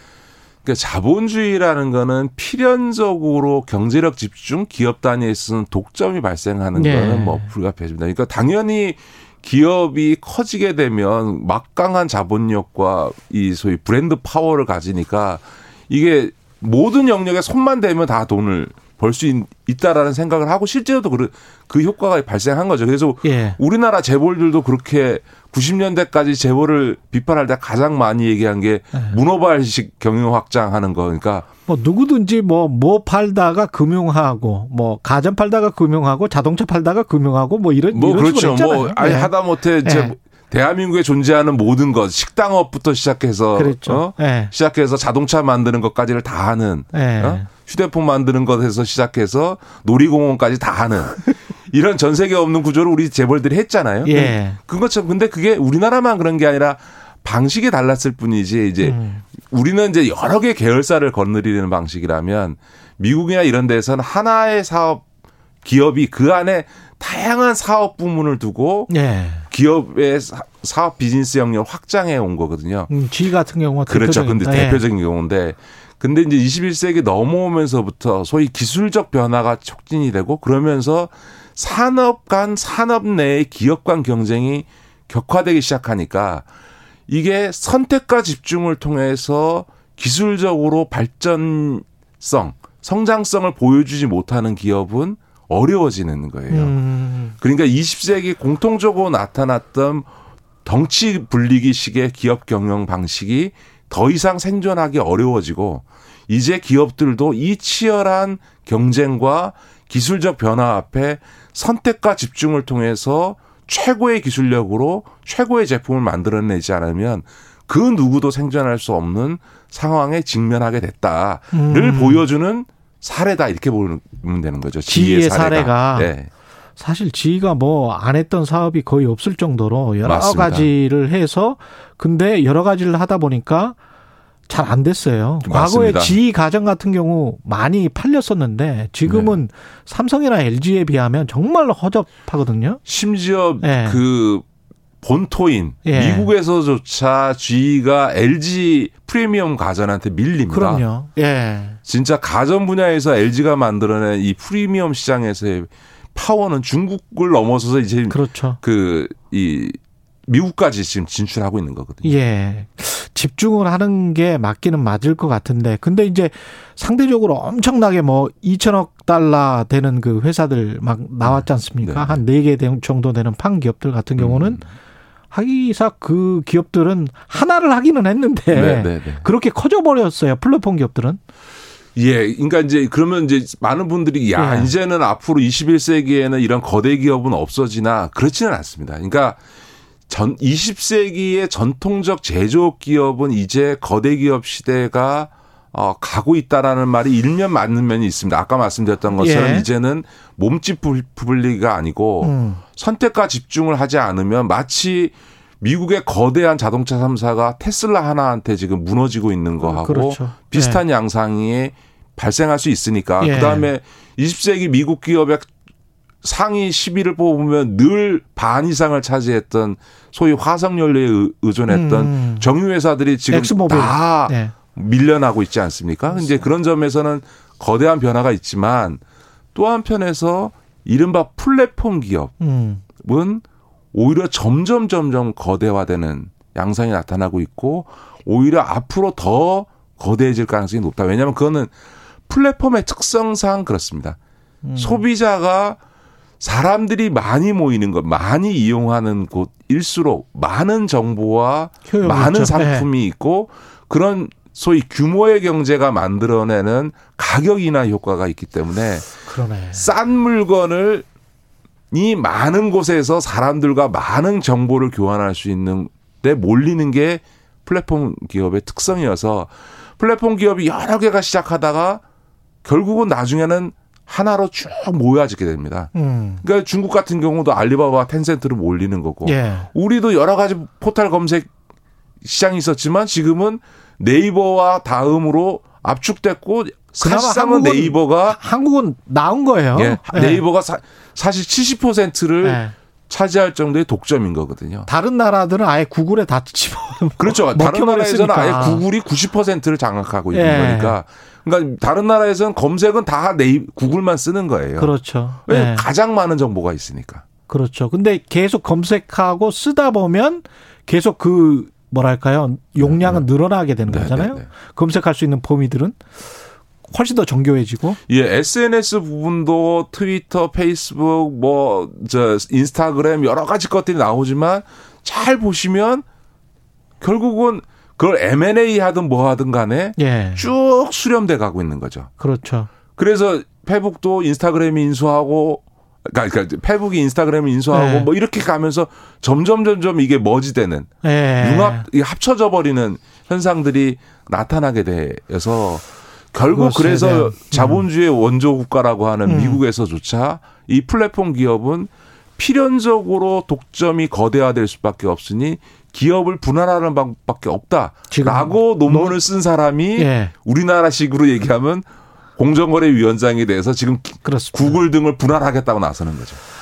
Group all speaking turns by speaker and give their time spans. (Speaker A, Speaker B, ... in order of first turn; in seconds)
Speaker A: 0.6-31.5, 37.9-65.0, 65.6-68.9, 69.5-72.9, 73.9-86.5, 87.1-96.8, 97.4-100.1, 100.7-126.3, 130.0-130.7, 135.4-136.2, 139.1-139.4, 142.9-144.4, 145.0-150.8, 151.8-162.2, 171.2-172.2, 174.2-174.7, 178.5-179.3, 182.0-189.4, 190.1-215.5, 216.2-229.0, 229.6-232.3, 233.0-241.7, 242.3-244.2, 244.8-245.8, 246.4-259.2, 259.7-261.1, 261.9-272.0, 272.6-281.5, 282.2-288.4, 289.8-294.9, 297.2-304.9, 305.5-307.2, 312.8-313.2, 313.9-314.5, 318.1-326.1, 327.0-332.1, 333.0-361.9, 362.4-366.4
Speaker B: 6.7-7.5, 23.2-23.6, 31.7-40.1, 43.5-44.5, 46.9-47.5, 54.0-54.6, 58.8-59.2, 68.9-69.5, 72.9-74.8, 96.5-97.3, 121.5-122.2, 124.9-126.2, 126.8-133.8, 134.5-142.8, 143.6-144.0, 145.8-146.3, 150.5-151.8, 158.1-158.6, 162.0-174.6, 175.3-181.2, 184.4-184.7, 199.2-199.7, 202.2-202.6, 209.6-210.8, 213.2-213.7, 221.7-222.5, 223.3-224.6, 226.1-226.4, 232.4-232.8, 244.6-245.0, 251.9-252.9, 259.2-259.9, 275.9-276.4, 279.2-279.7, 287.0-290.4, 292.4-292.7, 294.9-298.9, 300.3-301.0, 304.8-305.9, 307.5-316.0, 316.9-318.0, 330.0-330.5, 332.2-332.7, 337.7-338.1, 341.0-341.9, 346.5-347.8, 349.2-349.6, 358.1-359.2, 360.0-360.3, 364.2-364.8